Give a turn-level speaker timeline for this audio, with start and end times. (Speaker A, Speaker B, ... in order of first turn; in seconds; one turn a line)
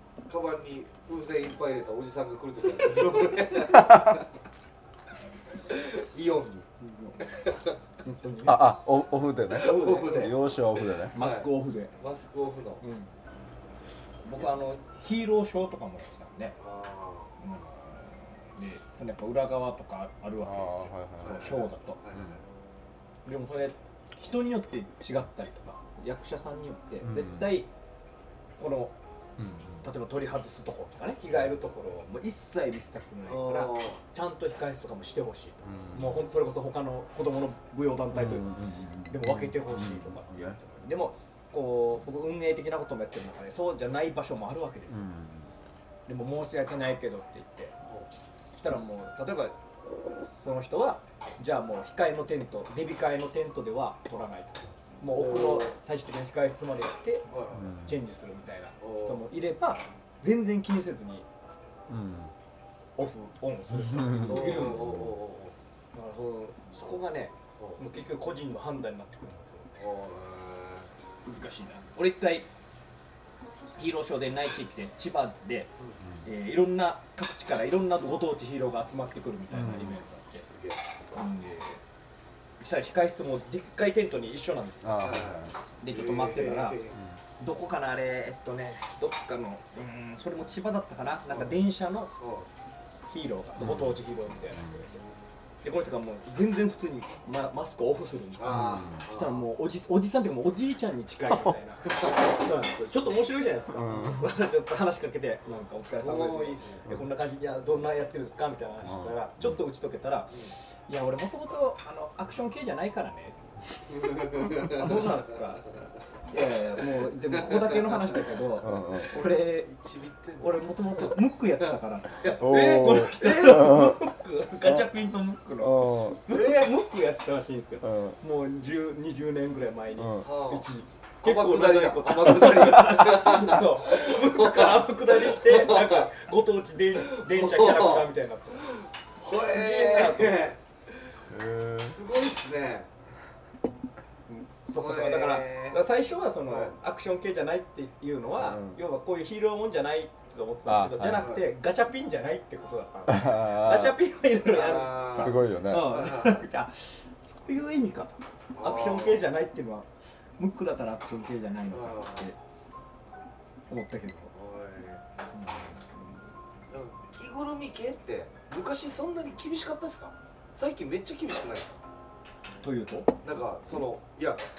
Speaker A: 0.3-4.2
Speaker B: 3.7-4.2
Speaker A: 5.7-6.7
Speaker C: 6.8-7.2
Speaker A: 7.3-7.8
Speaker C: 8.0-8.8
Speaker B: 8.4-11.1
Speaker A: 9.5-12.8
Speaker C: 9.5-10.3
Speaker C: 11.1-11.9
Speaker C: 12.8-13.1
Speaker C: 14.2-16.6
Speaker A: 16.6-17.3
Speaker C: 17.4-22.0
Speaker B: 20.4-21.5
Speaker A: 21.2-22.4
Speaker C: 23.2-27.7
Speaker B: 27.0-27.6
Speaker C: 28.6-28.9
Speaker B: 29.4-29.8
Speaker C: 29.8-38.5
Speaker A: 33.3-34.0
Speaker B: 35.6-36.2
Speaker B: 38.1-40.6
Speaker C: 39.1-45.0
Speaker B: 44.9-45.5
Speaker C: 46.1-47.7
Speaker C: 48.5-49.6
Speaker C: 50.1-57.3
Speaker A: 55.1-55.7
Speaker A: 57.3-57.7
Speaker B: 57.5-58.0
Speaker C: 57.8-61.3
Speaker A: 58.8-59.2
Speaker B: 61.9-62.3
Speaker C: 63.0-65.0
Speaker B: 63.7-65.2
Speaker A: 64.2-65.5
Speaker C: 65.9-69.7
Speaker A: 69.8-70.9
Speaker C: 71.2-72.5
Speaker C: 73.8-75.7
Speaker B: 76.0-76.3
Speaker C: 76.2-80.5
Speaker B: 79.5-80.0
Speaker A: 80.4-81.0
Speaker C: 81.1-81.8
Speaker C: 82.6-85.1
Speaker B: 84.8-85.6
Speaker A: 85.0-87.0
Speaker C: 85.8-86.8
Speaker C: 87.4-92.1
Speaker A: 91.3-92.5
Speaker C: 93.1-94.9
Speaker B: 93.6-94.9
Speaker C: 95.6-113.5
Speaker A: 98.4-99.5
Speaker B: 98.5-99.0
Speaker A: 101.8-102.4
Speaker B: 103.7-104.3
Speaker A: 106.0-106.9
Speaker B: 108.8-109.6
Speaker A: 113.9-115.9
Speaker C: 114.5-115.8
Speaker C: 116.3-119.7
Speaker A: 117.3-118.3
Speaker B: 118.6-119.2
Speaker A: 119.2-123.7
Speaker C: 120.4-140.4
Speaker B: 122.4-124.0
Speaker B: 124.6-124.9
Speaker B: 125.6-126.2
Speaker A: 126.3-126.7
Speaker B: 127.8-128.2
Speaker B: 130.0-130.3
Speaker A: 130.2-130.7
Speaker A: 131.2-136.1
Speaker A: 137.1-138.1
Speaker A: 138.6-141.2
Speaker B: 141.3-142.0
Speaker A: 141.8-142.9
Speaker C: 144.3-162.4
Speaker A: 144.8-145.8
Speaker A: 146.5-146.7
Speaker B: 148.4-148.8
Speaker B: 150.7-151.4
Speaker A: 151.1-151.4
Speaker B: 153.1-154.0
Speaker A: 154.4-156.4
Speaker B: 155.1-156.1
Speaker A: 158.6-159.3
Speaker A: 161.7-162.2
Speaker C: 163.7-164.3
Speaker A: 164.3-165.0
Speaker C: 165.3-165.8
Speaker A: 166.7-171.8
Speaker C: 172.6-173.1
Speaker A: 173.2-174.4